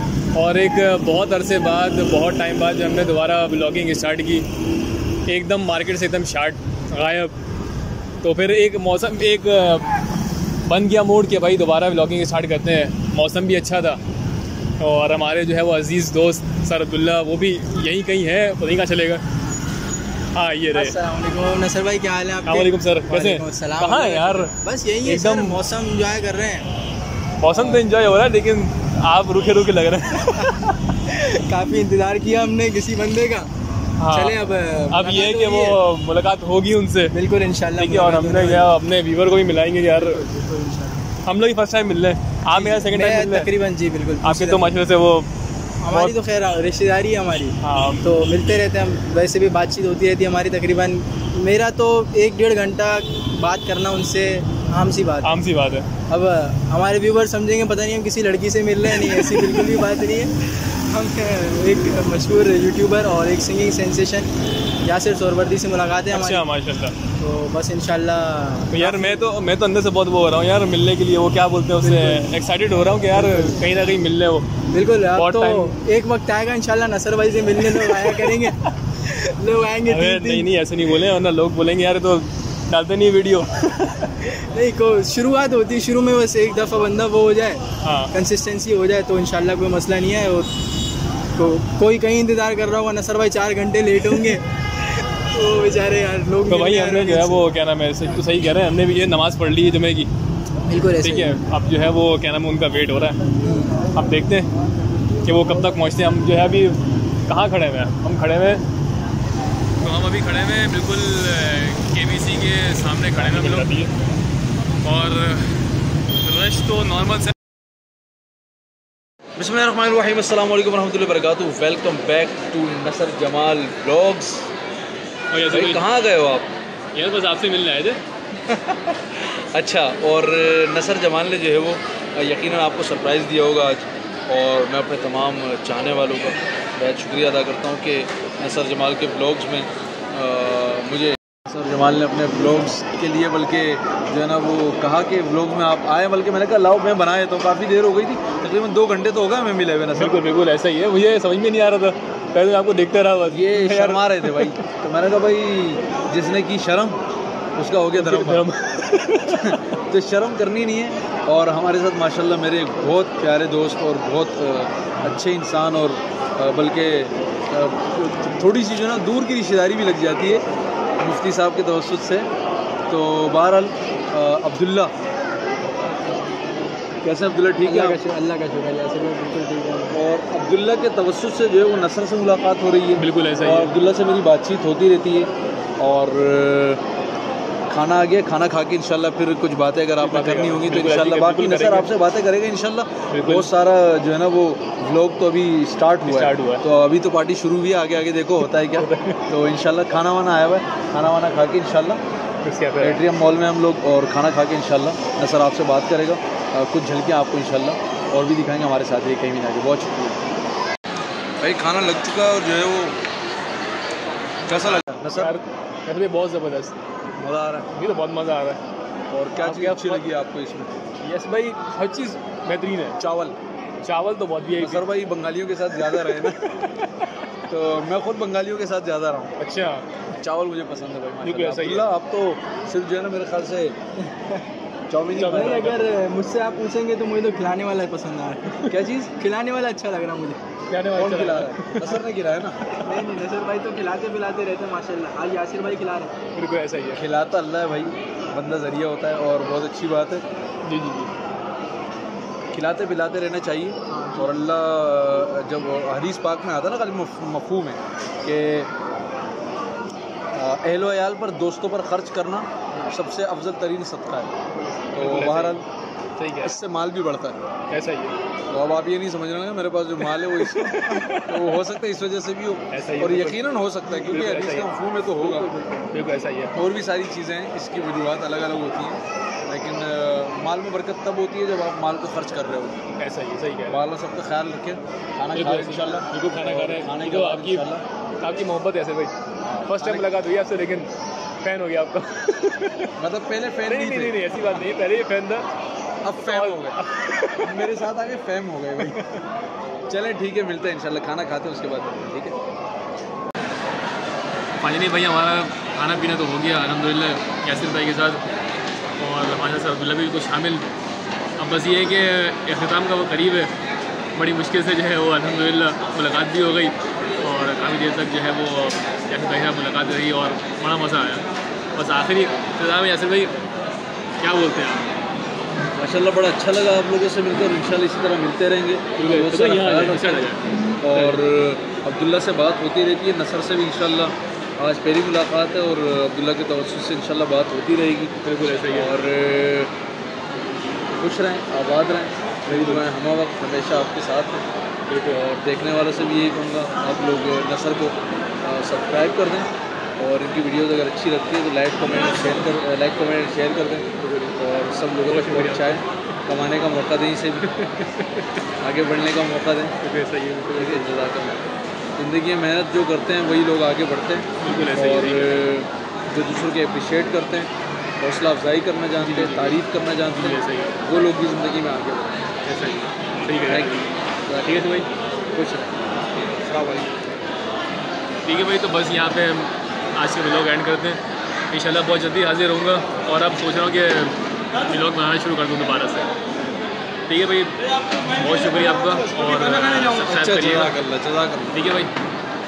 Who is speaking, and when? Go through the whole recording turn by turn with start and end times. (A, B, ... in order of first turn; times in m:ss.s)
0:00.3-0:04.4 A
0:05.3-0:07.3 A
0:08.2-0:09.9 A
0:10.6-0:14.0 A
0:14.8-0:19.2 A
0:20.3-0:20.9 A
0:20.7-0:26.7 B
0:22.4-0:24.5 A
0:25.0-0:25.6 A
0:27.4-0:30.7 A
0:27.5-0:27.8 B
0:30.9-0:33.5 B
0:34.0-0:34.4 A
0:34.1-0:35.8 B
0:34.9-0:37.1 A
0:37.1-0:38.7 B
0:37.8-0:40.2 A
0:39.9-0:41.0 B
0:41.2-0:43.5 A
0:42.5-0:44.7 B
0:44.2-0:45.3 A
0:45.8-0:55.3 B
0:47.6-0:48.0 A
0:55.2-0:55.8 A
0:56.1-1:04.3 B
0:59.2-0:59.6 A
1:04.8-1:06.4 B
1:06.1-1:06.9 A
1:07.2-1:09.2 B
1:08.7-1:14.4 A
1:11.8-1:12.4 B
1:13.1-1:13.6 B
1:14.7-1:20.5 B
1:15.1-1:15.7 A
1:17.7-1:18.5 A
1:19.8-1:24.2 A
1:24.3-1:30.5 B
1:27.8-1:28.1 A
1:31.3-1:37.5 B
1:36.5-1:40.1 A
1:40.7-1:41.4 B
1:41.0-1:43.2 A
1:43.4-1:43.8 B
1:43.9-1:44.5 A
1:45.2-1:48.6 A
1:49.8-1:53.9 A
1:54.8-1:55.7 A
1:56.2-1:57.3 A
1:59.4-2:04.5 C
2:05.3-2:05.8 A
2:05.5-2:06.5 C
2:06.9-2:08.0 A
2:08.5-2:30.2 C
2:30.0-2:34.6 A
2:33.3-2:37.0 C
2:37.6-2:38.5 C
2:38.0-2:39.6 A
2:39.3-2:50.4 C
2:51.0-2:52.3 C
2:52.9-2:54.9 C
2:57.0-2:58.0 C
2:57.6-3:00.0 B
2:59.9-3:06.8 C
3:03.0-3:03.7 A
3:07.7-3:22.0 C
3:10.0-3:11.9 A
3:13.1-3:13.5 A
3:16.0-3:16.6 A
3:18.7-3:19.2 A
3:22.4-3:23.0 A
3:22.8-3:30.2 C
3:31.4-3:33.0 C
3:34.5-3:35.3 C
3:35.1-3:36.8 A
3:37.2-3:37.7 C
3:37.7-3:38.6 A
3:39.1-3:40.7 C
3:39.4-3:40.1 A
3:41.0-3:43.0 A
3:43.0-3:43.4 C
3:43.8-3:44.8 A
3:44.6-3:46.4 C
3:45.8-3:46.7 A
3:47.5-3:49.3 C
3:49.4-3:49.8 A
3:50.2-3:53.7 C
3:51.2-3:51.8 A
3:54.9-3:55.7 C
3:55.1-3:55.8 A
3:55.2-3:58.5 B
3:58.7-3:59.1 C
3:59.2-4:00.4 B
4:00.7-4:02.0 A
4:00.9-4:02.6 C
4:02.8-4:06.1 B
4:06.3-4:07.0 A
4:06.9-4:10.2 C
4:10.6-4:11.1 A
4:12.5-4:18.7 C
4:13.9-4:14.3 B
4:20.3-4:24.3 C
4:24.7-4:25.6 A
4:24.9-4:25.6 C
4:26.2-4:26.6 A
4:26.4-4:27.4 C
4:27.7-4:28.2 A
4:28.5-4:35.5 C
4:30.0-4:31.6 A
4:32.7-4:33.4 A
4:33.9-4:34.7 A
4:35.2-4:36.0 B
4:35.9-4:36.6 A
4:36.5-4:42.8 C
4:43.0-4:43.8 A
4:43.7-4:47.8 C
4:45.3-4:47.7 A
4:48.2-4:49.1 A
4:49.6-4:50.1 C
4:49.6-4:50.9 A
4:51.4-4:52.9 A
4:53.0-4:54.2 C
4:53.6-4:55.5 A
4:56.0-4:56.8 C
4:56.2-4:57.8 A
4:57.4-4:59.0 C
4:58.8-4:59.2 A
4:59.9-5:02.4 C
5:04.6-5:08.2 A
5:09.0-5:10.6 A
5:11.4-5:13.5 A
5:14.2-5:21.2 A
5:21.8-5:23.4 A
5:24.2-5:24.8 A
5:25.8-5:30.3 C
5:29.0-5:31.2 A
5:30.8-5:38.1 C
5:38.2-5:39.0 A
5:38.7-5:39.7 C
5:41.0-5:44.4 C
5:42.5-5:42.8 A
5:44.9-5:45.2 A
5:45.1-5:57.4 C
5:54.0-5:54.4 A
5:55.1-5:55.8 A
5:57.4-5:58.3 A
5:58.6-5:59.7 C
5:59.8-6:01.0 A
6:00.5-6:01.4 C
6:02.0-6:12.2 C
6:04.4-6:05.4 A
6:09.0-6:10.8 A
6:12.4-6:13.9 A
6:13.4-6:14.6 C
6:14.4-6:14.9 A
6:15.3-6:15.7 C
6:16.4-6:17.0 C
6:18.2-6:26.1 A
6:27.1-6:30.8 A
6:30.0-6:31.6 C
6:31.5-6:31.9 A